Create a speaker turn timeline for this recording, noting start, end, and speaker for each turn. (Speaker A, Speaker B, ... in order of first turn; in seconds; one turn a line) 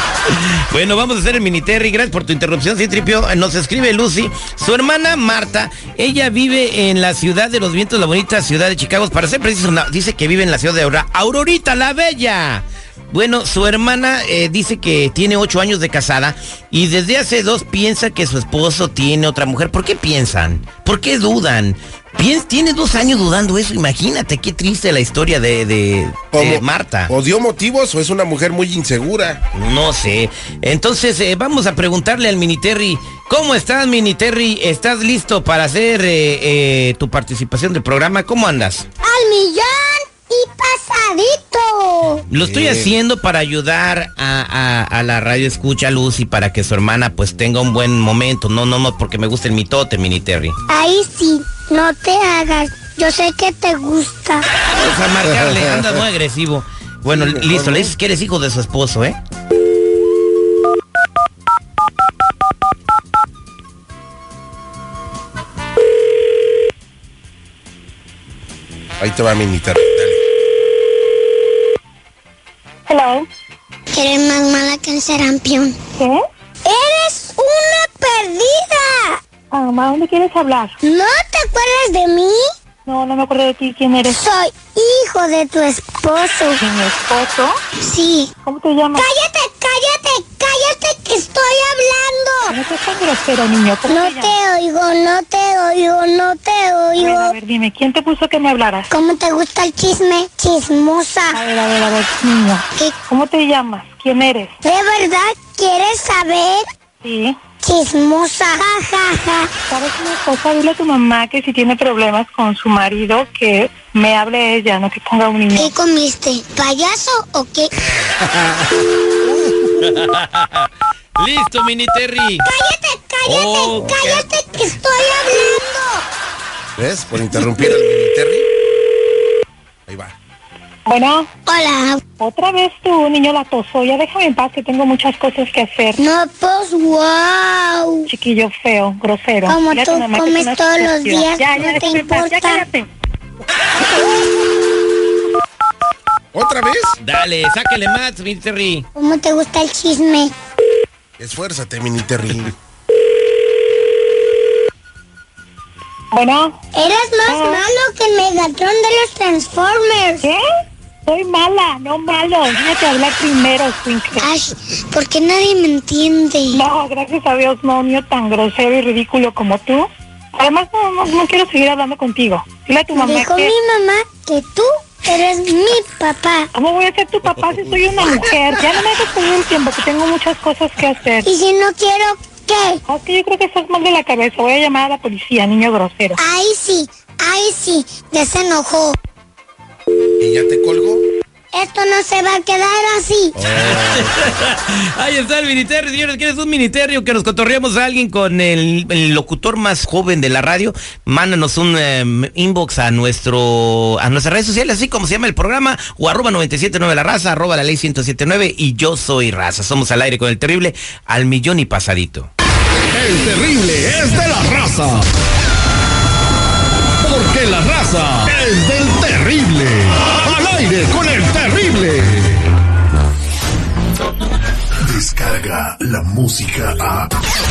Speaker A: 0.3-27.1
Speaker B: 26.3-29.4
Speaker A: 29.5-38.9
Speaker C: 39.0-42.2
Speaker A: 42.3-50.6
Speaker B: 42.4-42.9
Speaker C: 50.7-54.5
Speaker A: 54.6-59.2
Speaker B: 57.1-57.9
Speaker B: 69.0-70.2
Speaker D: 72.9-73.2
Speaker C: 73.9-75.8
Speaker C: 76.6-79.2
Speaker D: 79.5-80.8
Speaker C: 80.8-82.4
Speaker D: 82.8-84.2
Speaker C: 84.1-86.6
Speaker D: 86.6-87.5
Speaker C: 87.8-88.3
Speaker D: 88.4-89.1
Speaker C: 89.0-92.5
Speaker D: 92.5-94.3
Speaker C: 93.9-97.3
Speaker D: 97.0-98.9
Speaker C: 98.9-101.4
Speaker D: 101.3-104.5
Speaker C: 104.6-106.6
Speaker D: 107.0-107.3
Speaker C: 107.6-109.5
Speaker D: 109.7-115.7
Speaker C: 115.5-117.7
Speaker A: 119.8-122.5
Speaker C: 122.4-126.0
Speaker A: 123.2-124.3
Speaker B: 126.8-128.5
Speaker B: 129.9-130.1
Speaker D: 130.8-131.3
Speaker C: 131.4-132.0
Speaker D: 132.2-136.0
Speaker C: 136.0-138.1
Speaker D: 138.1-142.9
Speaker C: 139.4-142.6
Speaker B: 146.3-147.0
Speaker A: 147.0-148.9
Speaker C: 148.9-150.3
Speaker B: 151.2-152.5
Speaker D: 156.1-156.6
Speaker C: 156.7-160.2
Speaker D: 157.3-157.6
Speaker D: 161.1-164.3
Speaker C: 164.2-166.6
Speaker D: 166.5-173.5
Speaker C: 172.9-176.5
Speaker D: 176.5-181.3
Speaker C: 181.2-182.8
Speaker D: 182.9-186.2
Speaker C: 186.2-189.0
Speaker B: 190.2-191.0
Speaker C: 191.5-193.3
Speaker A: 193.4-212.3
Speaker B: 193.4-194.1
Speaker E: 212.9-215.0
Speaker E: 217.0-222.3
Speaker F: 224.8-227.1